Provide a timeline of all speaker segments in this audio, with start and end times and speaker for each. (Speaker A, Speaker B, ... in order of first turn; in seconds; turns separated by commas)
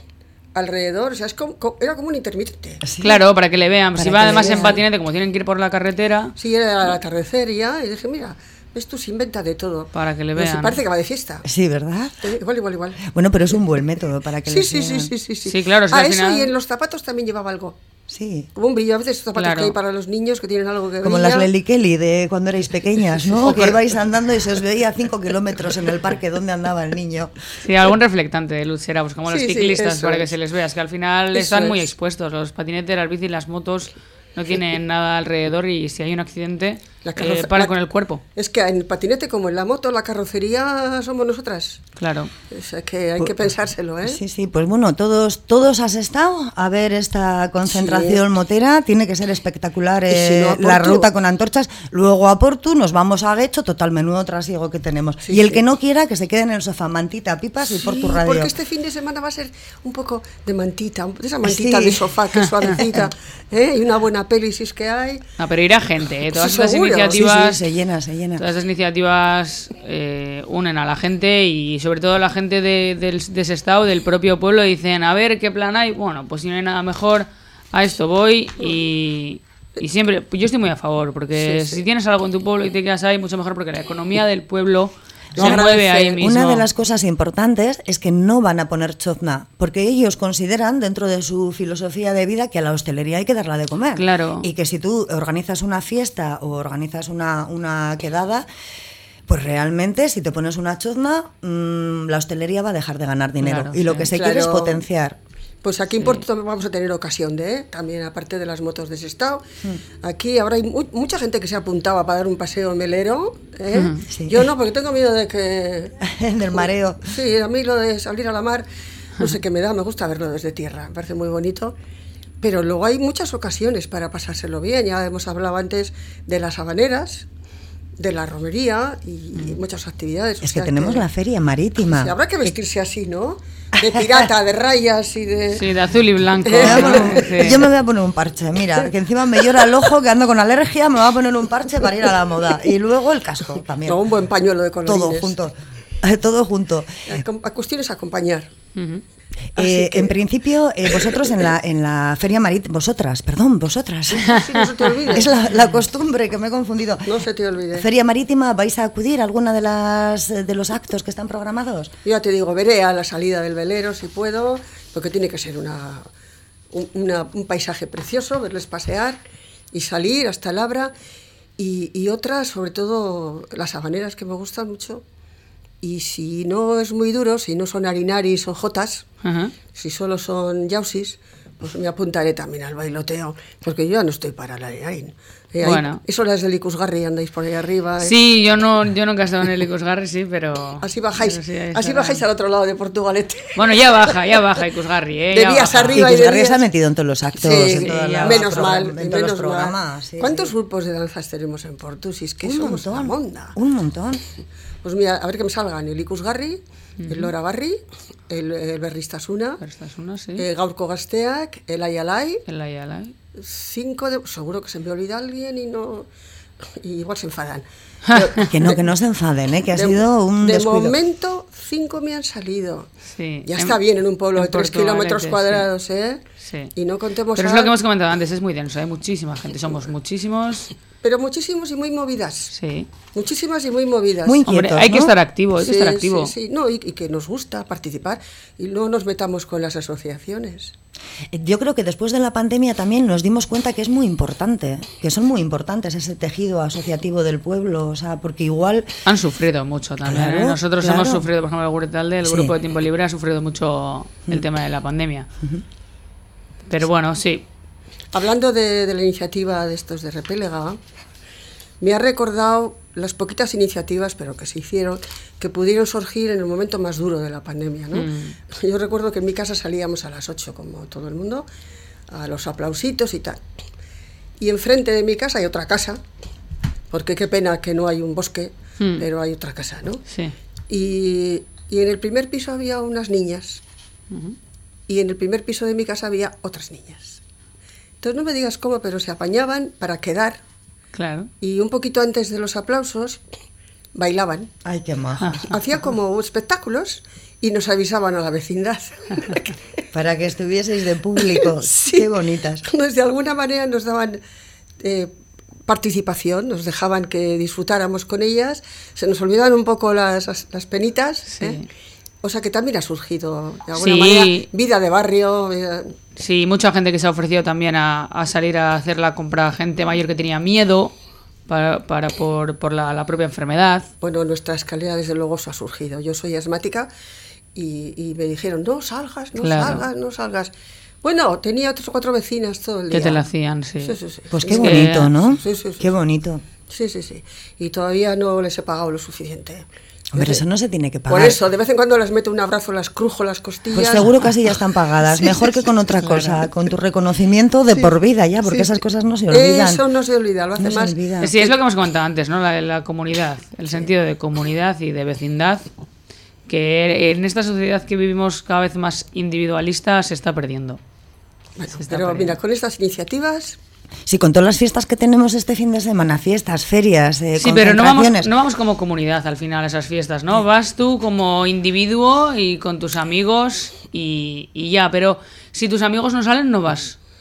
Speaker A: 0.6-2.8, Speaker B: 2.8-3.2, Speaker C: 3.0-6.3, Speaker B: 4.0-4.8, Speaker A: 6.4-11.5, Speaker C: 9.9-10.8, Speaker B: 11.5-12.3, Speaker A: 12.2-13.0, Speaker B: 13.0-15.1, Speaker A: 14.5-17.8, Speaker C: 15.4-16.5, Speaker B: 18.1-18.5, Speaker A: 18.6-21.5, Speaker C: 19.4-19.7, Speaker B: 21.0-27.3, Speaker C: 27.6-38.2, Speaker A: 29.3-30.3, Speaker A: 31.3-31.9, Speaker A: 37.0-37.7, Speaker A: 38.4-41.8, Speaker C: 42.0-42.3, Speaker A: 42.5-44.2, Speaker B: 44.0-58.5, Speaker A: 47.6-48.2, Speaker A: 50.1-51.1, Speaker A: 55.2-55.6, Speaker A: 57.6-65.2, Speaker B: 61.4-62.1, Speaker B: 62.8-63.1, Speaker C: 65.4-67.6, Speaker A: 66.2-67.2, Speaker B: 67.1-68.5, Speaker C: 68.4-86.7, Speaker A: 81.3-81.8, Speaker A: 85.3-86.1, Speaker B: 85.3-98.5, Speaker C: 94.0-94.5, Speaker B: 99.3-105.2, Speaker C: 103.4-104.1, Speaker A: 104.1-104.8, Speaker A: 105.6-109.4, Speaker A: 110.0-116.0, Speaker C: 113.7-114.0, Speaker B: 114.1-114.5, Speaker B: 116.0-117.1, Speaker A: 117.1-118.7, Speaker A: 119.2-121.8, Speaker A: 122.4-127.3, Speaker A: 128.0-131.1, Speaker B: 130.4-132.2, Speaker A: 131.9-135.6, Speaker B: 133.8-134.2, Speaker C: 135.5-137.6, Speaker A: 136.4-137.3, Speaker B: 136.6-144.0, Speaker A: 143.9-145.3, Speaker B: 144.9-147.1, Speaker A: 147.1-148.5, Speaker C: 148.8-149.0, Speaker B: 149.6-154.4, Speaker A: 149.6-150.1, Speaker A: 150.9-151.3, Speaker A: 154.3-155.3, Speaker B: 155.1-157.1, Speaker A: 157.1-157.9, Speaker B: 157.7-161.9, Speaker A: 162.1-166.1, Speaker A: 166.7-169.2, Speaker A: 169.7-170.9, Speaker A: 171.6-175.0, Speaker A: 175.8-179.1, Speaker C: 179.2-179.5, Speaker A: 179.7-188.2, Speaker C: 185.6-186.0, Speaker C: 188.0-192.2, Speaker A: 190.8-194.2, Speaker C: 193.6-196.1, Speaker A: 195.3-196.6, Speaker B: 195.9-200.5, Speaker A: 197.4-203.6, Speaker C: 197.8-198.4, Speaker B: 202.4-204.2, Speaker A: 204.8-209.6, Speaker C: 207.0-207.3, Speaker C: 209.6-210.4, Speaker A: 210.4-212.4, Speaker C: 212.5-213.1, Speaker A: 213.4-216.1, Speaker A: 216.7-218.8, Speaker B: 218.5-221.0, Speaker A: 219.7-222.9, Speaker C: 223.1-223.8, Speaker A: 223.4-226.2, Speaker C: 224.4-225.7, Speaker C: 226.4-226.7, Speaker A: 226.8-227.7, Speaker C: 227.4-230.7, Speaker A: 231.0-232.5, Speaker C: 232.5-232.9, Speaker A: 233.1-234.4, Speaker B: 234.2-235.1, Speaker C: 234.5-236.3, Speaker A: 235.6-240.7, Speaker B: 241.3-248.9, Speaker C: 249.1-255.3, Speaker B: 250.0-251.3, Speaker B: 252.2-252.5, Speaker C: 256.7-257.4, Speaker A: 258.1-260.8, Speaker A: 261.8-271.4, Speaker C: 267.9-268.4, Speaker A: 272.1-273.4, Speaker A: 274.4-276.0, Speaker A: 276.9-280.0, Speaker A: 280.7-283.6, Speaker C: 284.1-284.4, Speaker A: 284.9-287.2, Speaker A: 288.0-290.4, Speaker C: 290.9-291.3, Speaker A: 291.4-293.2, Speaker A: 293.9-294.5, Speaker B: 294.6-295.4, Speaker C: 295.2-295.5, Speaker A: 295.5-299.5, Speaker B: 299.9-302.6, Speaker A: 301.2-302.1, Speaker A: 302.6-304.2, Speaker A: 304.8-305.1, Speaker A: 305.7-311.6, Speaker C: 311.3-311.6, Speaker A: 312.2-315.9, Speaker C: 313.8-314.4, Speaker C: 316.2-320.9, Speaker C: 321.5-323.9, Speaker A: 324.0-326.9, Speaker A: 327.6-333.2, Speaker C: 329.4-329.8, Speaker C: 332.9-334.0, Speaker A: 333.8-335.9, Speaker B: 334.3-336.4, Speaker C: 334.6-335.1, Speaker A: 336.7-340.4, Speaker B: 340.1-341.4, Speaker A: 341.1-344.1, Speaker B: 343.7-349.8, Speaker A: 348.4-348.8, Speaker A: 349.3-351.6, Speaker B: 350.6-351.3, Speaker C: 351.2-355.7, Speaker C: 356.5-360.8, Speaker A: 361.6-363.6, Speaker C: 361.8-362.4, Speaker B: 364.1-368.3, Speaker C: 367.4-377.0